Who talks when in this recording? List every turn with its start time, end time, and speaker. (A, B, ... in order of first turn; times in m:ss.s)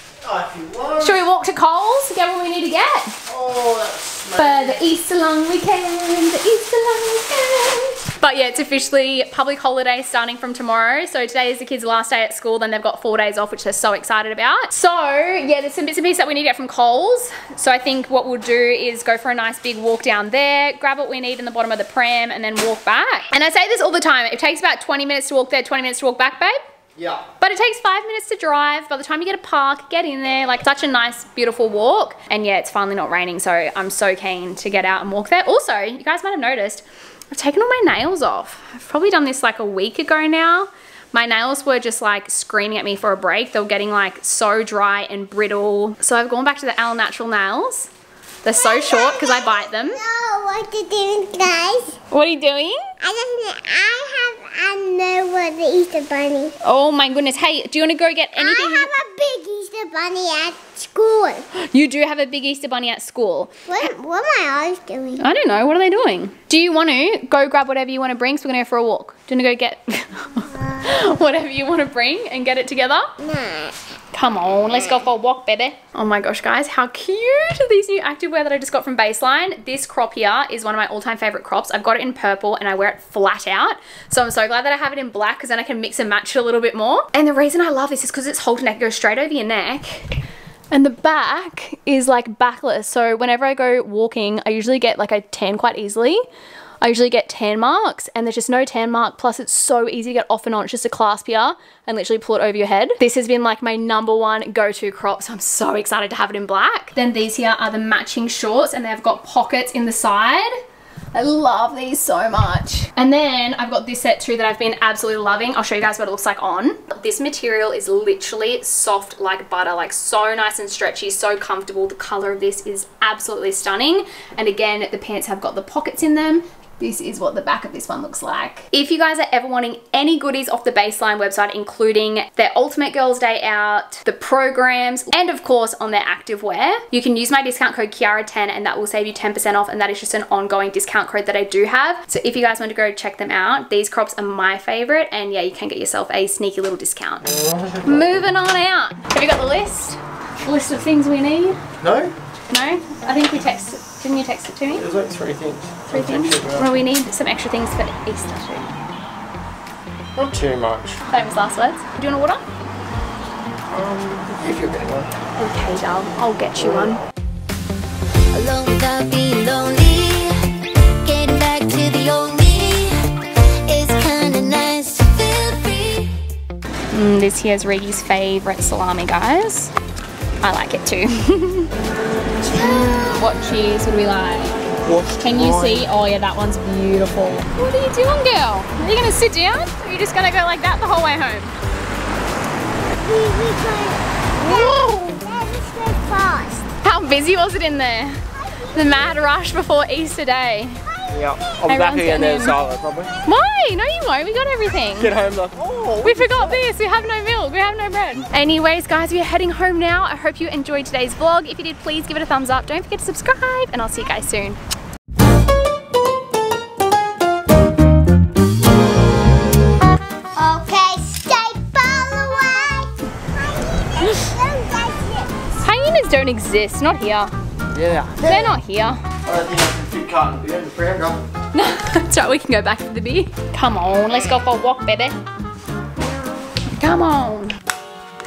0:00.2-0:01.2 A
0:01.0-0:03.2 B
0:03.2-0:04.8 A
0:04.3-0:26.6 B
0:27.0-0:27.2 A
0:27.4-0:47.9 B
0:48.4-0:50.0 B
0:48.5-0:52.0 C
0:52.1-0:52.8 B
0:53.0-0:56.5 C
0:56.6-0:58.9 B
0:58.4-1:01.5 C
1:01.5-1:03.9 B
1:03.7-1:05.3 C
1:05.2-1:13.1 B
1:10.6-1:10.9 C
1:13.2-1:13.8 C
1:14.1-1:30.2 B
1:30.7-1:36.2 B
1:36.8-1:50.5 B
1:51.1-2:27.2 B
2:27.2-2:28.2 A
2:27.8-2:31.6 B
2:31.8-2:32.1 A
2:32.5-2:34.8 B
2:34.7-2:36.7 A
2:35.9-2:38.7 B
2:40.2-2:41.0 A
2:41.1-2:42.4 B
2:43.7-2:45.1 A
2:45.4-2:47.0 B
2:48.3-2:50.4 D
2:51.0-2:53.0 D
2:53.6-2:56.1 D
2:56.9-2:59.7 B
3:00.4-3:01.7 B
3:02.5-3:04.6 B
3:04.8-3:05.9 A
3:05.2-3:11.5 B
3:12.8-3:16.7 C
3:14.4-3:15.2 B
3:16.8-3:20.8 B
3:18.4-3:19.3 C
3:20.9-3:21.6 C
3:21.1-3:23.1 A
3:21.6-3:22.6 B
3:23.2-3:25.1 B
3:25.0-3:26.6 A
3:26.0-3:34.6 B
3:40.3-3:45.5 C
3:45.6-3:47.3 B
3:47.7-3:48.4 A
3:48.2-3:49.0 B
3:49.2-3:51.2 A
3:51.5-3:55.2 B
3:56.0-3:56.6 C
3:56.8-3:57.6 B